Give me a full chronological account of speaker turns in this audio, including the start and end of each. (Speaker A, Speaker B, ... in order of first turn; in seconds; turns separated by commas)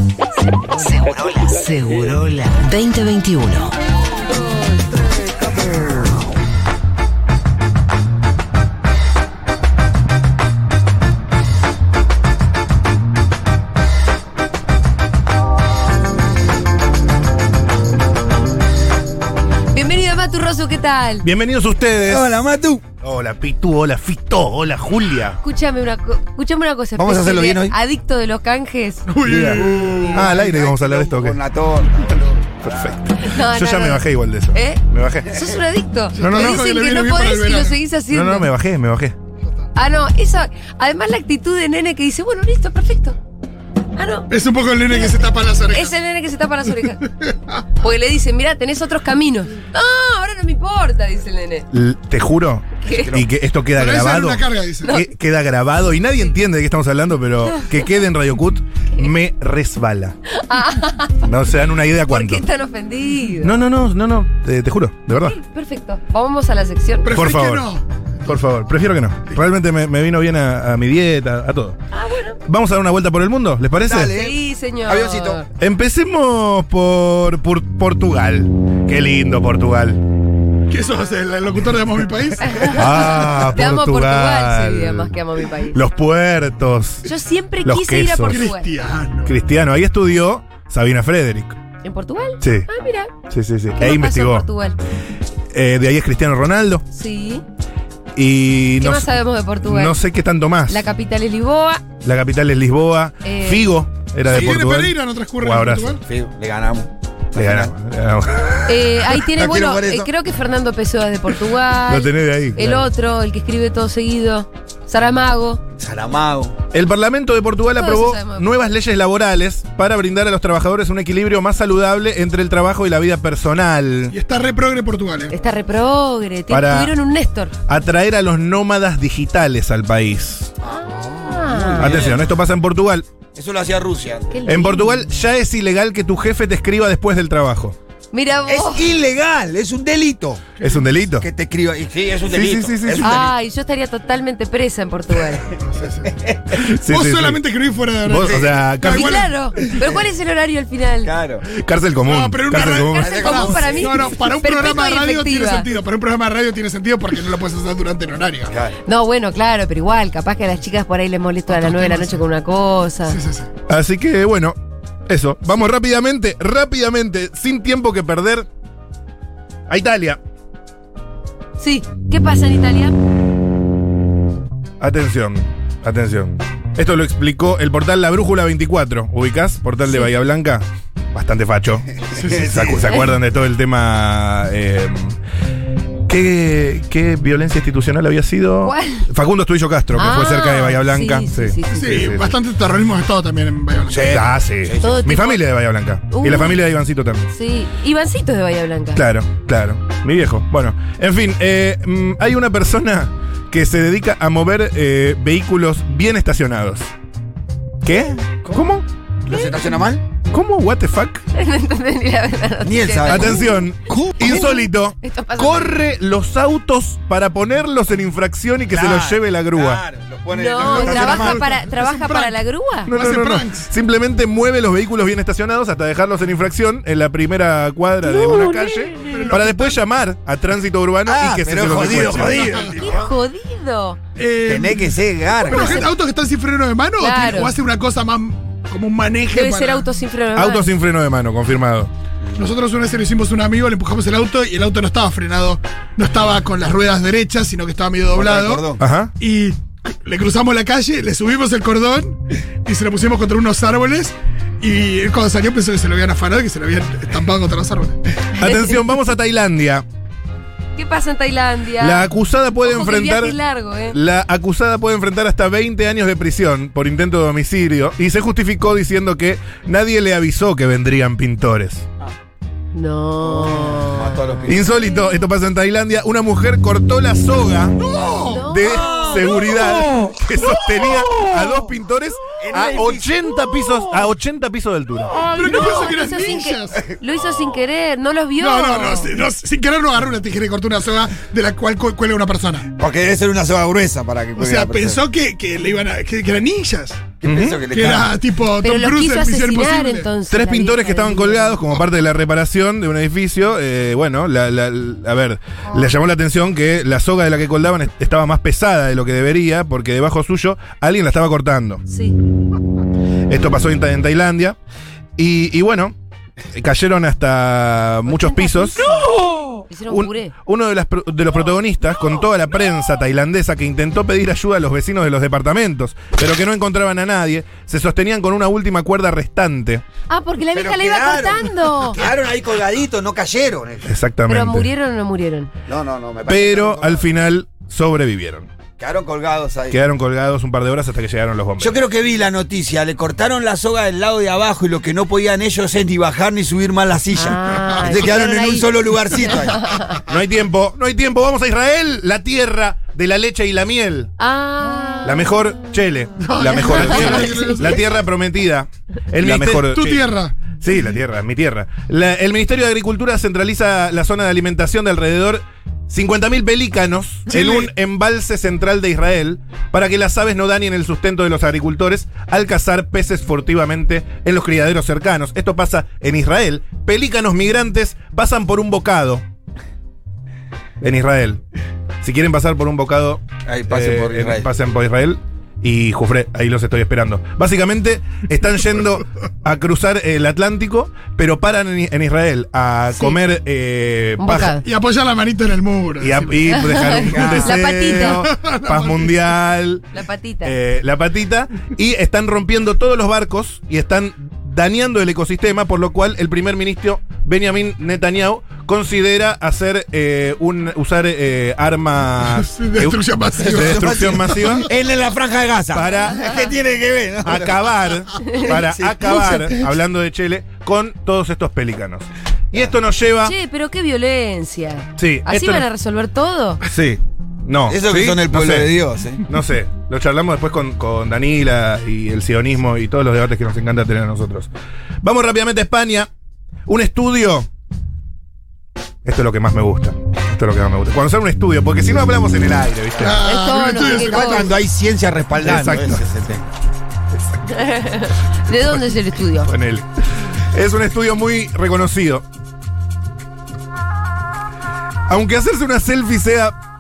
Speaker A: 0.7-3.8, Speaker B: 19.7-21.3, Speaker C: 21.2-22.3, Speaker D: 22.1-22.8, Speaker C: 23.0-25.4, Speaker B: 25.4-29.1, Speaker D: 27.0-27.8, Speaker E: 29.1-30.3, Speaker C: 29.2-31.4, Speaker D: 29.9-32.7, Speaker C: 32.6-35.5, Speaker B: 33.2-38.5, Speaker E: 36.2-37.8, Speaker C: 36.2-36.6, Speaker C: 38.1-39.1, Speaker B: 39.8-43.2, Speaker B: 44.0-44.3, Speaker E: 44.3-46.0, Speaker B: 44.9-45.1, Speaker B: 45.7-47.1, Speaker E: 47.2-47.5, Speaker B: 47.8-51.7, Speaker C: 51.7-60.1, Speaker B: 52.8-53.1, Speaker D: 52.9-53.3, Speaker E: 53.7-55.0, Speaker B: 60.3-61.2, Speaker C: 61.2-62.5, Speaker B: 62.1-63.6, Speaker C: 63.4-65.4, Speaker B: 65.2-67.2, Speaker E: 67.0-67.8, Speaker C: 67.1-67.7, Speaker C: 68.2-71.8, Speaker B: 71.9-72.4, Speaker C: 72.5-74.2, Speaker D: 73.8-75.4, Speaker B: 74.1-75.5, Speaker C: 75.6-80.0, Speaker E: 80.7-82.8, Speaker B: 82.5-85.8, Speaker C: 82.7-85.2, Speaker C: 85.7-87.1, Speaker B: 87.0-88.7, Speaker C: 87.6-88.5, Speaker E: 88.3-89.3, Speaker C: 89.2-91.6, Speaker B: 91.8-93.1, Speaker C: 92.4-92.7, Speaker C: 93.3-94.5, Speaker B: 93.8-94.8, Speaker C: 95.5-96.8, Speaker B: 96.9-97.4, Speaker C: 98.2-100.8, Speaker B: 98.8-100.0, Speaker B: 100.7-101.8, Speaker C: 102.0-106.0, Speaker B: 103.2-103.7, Speaker E: 104.3-106.0, Speaker D: 106.0-107.7, Speaker C: 107.3-109.2, Speaker B: 108.7-115.6, Speaker D: 109.3-110.1, Speaker C: 111.9-112.9, Speaker D: 115.8-116.5, Speaker C: 116.7-124.2, Speaker B: 117.7-118.5, Speaker E: 124.1-125.3, Speaker B: 125.3-127.5, Speaker C: 126.5-126.9, Speaker C: 127.7-130.5, Speaker D: 130.6-132.3, Speaker B: 130.8-132.2, Speaker C: 131.8-133.1, Speaker D: 133.3-134.4, Speaker B: 134.3-134.9, Speaker C: 134.5-137.8, Speaker B: 138.1-138.9, Speaker D: 138.5-140.5, Speaker E: 140.6-140.9, Speaker C: 140.6-141.3, Speaker D: 141.2-143.3, Speaker C: 142.3-143.2, Speaker B: 143.0-145.5, Speaker E: 145.6-146.1, Speaker D: 146.1-146.6, Speaker C: 146.5-147.4, Speaker E: 146.8-149.3, Speaker C: 148.1-149.3, Speaker B: 148.8-151.1, Speaker D: 151.0-151.5, Speaker C: 151.5-153.6, Speaker E: 152.0-158.5, Speaker B: 152.6-155.7, Speaker D: 152.9-154.2, Speaker D: 158.5-158.8, Speaker B: 158.8-163.2, Speaker E: 161.5-162.2, Speaker E: 163.1-163.5, Speaker C: 163.7-164.6, Speaker C: 165.1-168.5, Speaker C: 169.7-170.2, Speaker B: 171.6-172.9, Speaker C: 174.8-185.2, Speaker E: 182.1-183.0, Speaker D: 182.2-182.7, Speaker C: 186.1-192.3, Speaker B: 188.6-189.1, Speaker B: 189.9-191.9, Speaker E: 191.7-194.2, Speaker D: 193.9-195.1, Speaker C: 194.0-197.3, Speaker B: 194.8-195.4, Speaker B: 196.1-196.6, Speaker B: 197.3-199.0, Speaker C: 198.9-206.9, Speaker C: 207.8-208.9, Speaker D: 209.3-210.1, Speaker B: 209.3-209.7, Speaker C: 210.3-211.2, Speaker B: 211.3-213.6, Speaker D: 212.6-214.3, Speaker C: 213.1-219.8, Speaker B: 214.2-215.8, Speaker D: 218.7-221.4, Speaker B: 220.3-222.9, Speaker E: 220.6-222.3, Speaker C: 222.9-232.5, Speaker E: 222.9-223.7, Speaker B: 228.1-229.3, Speaker E: 229.1-229.8, Speaker D: 231.1-233.1, Speaker E: 231.8-232.9, Speaker B: 232.5-234.0, Speaker E: 234.2-239.9, Speaker D: 234.4-235.9, Speaker B: 235.5-235.9, Speaker B: 237.0-237.5, Speaker B: 239.3-240.7, Speaker C: 240.3-241.9, Speaker E: 242.4-248.7, Speaker D: 248.1-248.8, Speaker C: 248.8-249.1, Speaker E: 249.2-258.0, Speaker C: 258.3-259.9, Speaker B: 258.4-258.7, Speaker B: 260.8-262.1, Speaker C: 261.8-271.9, Speaker B: 262.6-264.0, Speaker B: 272.7-274.3, Speaker D: 273.3-274.6, Speaker C: 274.5-277.8, Speaker E: 277.8-278.5, Speaker B: 278.3-279.6, Speaker C: 278.5-285.1, Speaker D: 278.7-279.3, Speaker D: 282.4-283.1, Speaker E: 285.2-286.8, Speaker B: 285.4-289.1, Speaker E: 288.4-292.7, Speaker D: 292.8-295.0, Speaker E: 294.4-297.1, Speaker C: 297.2-297.7, Speaker D: 297.2-298.1, Speaker E: 297.7-300.1, Speaker B: 298.6-301.6, Speaker C: 300.3-311.8, Speaker B: 311.9-312.1, Speaker C: 313.3-314.6, Speaker C: 315.2-315.9, Speaker C: 316.5-318.9, Speaker B: 318.1-319.1, Speaker B: 319.7-320.3, Speaker C: 319.9-329.8, Speaker B: 330.1-332.0, Speaker D: 330.5-333.9, Speaker C: 333.9-334.7, Speaker B: 334.3-335.5, Speaker D: 335.7-337.1, Speaker C: 336.3-338.5, Speaker D: 338.8-339.8, Speaker C: 339.7-341.8, Speaker D: 341.6-349.7, Speaker B: 347.1-348.7, Speaker B: 349.5-349.9, Speaker C: 350.0-354.1, Speaker B: 354.2-355.3, Speaker C: 355.0-360.0, Speaker E: 356.2-357.9, Speaker B: 356.7-357.6, Speaker E: 359.2-360.4, Speaker C: 360.6-379.2, Speaker E: 367.3-367.7, Speaker C: 380.8-381.4, Speaker C: 382.0-394.6, Speaker D: 383.4-384.5, Speaker B: 394.2-394.6, Speaker E: 394.6-397.2, Speaker C: 396.0-414.7, Speaker B: 396.5-398.2, Speaker D: 397.1-397.5, Speaker E: 397.9-399.2, Speaker B: 399.9-400.5, Speaker E: 412.2-414.7, Speaker D: 413.4-417.7, Speaker C: 415.7-416.3, Speaker C: 417.2-423.4, Speaker B: 418.2-418.5, Speaker D: 418.4-419.5, Speaker B: 423.2-426.6, Speaker C: 425.0-425.7, Speaker D: 426.6-427.0, Speaker C: 427.5-434.5, Speaker D: 427.7-429.2, Speaker C: 435.0-436.1, Speaker C: 436.7-437.5, Speaker C: 439.1-443.2, Speaker E: 443.0-444.6, Speaker B: 443.1-444.5, Speaker D: 443.7-446.5, Speaker C: 445.4-446.0, Speaker C: 447.1-447.4, Speaker B: 447.5-449.5, Speaker C: 448.5-452.2, Speaker C: 455.1-456.6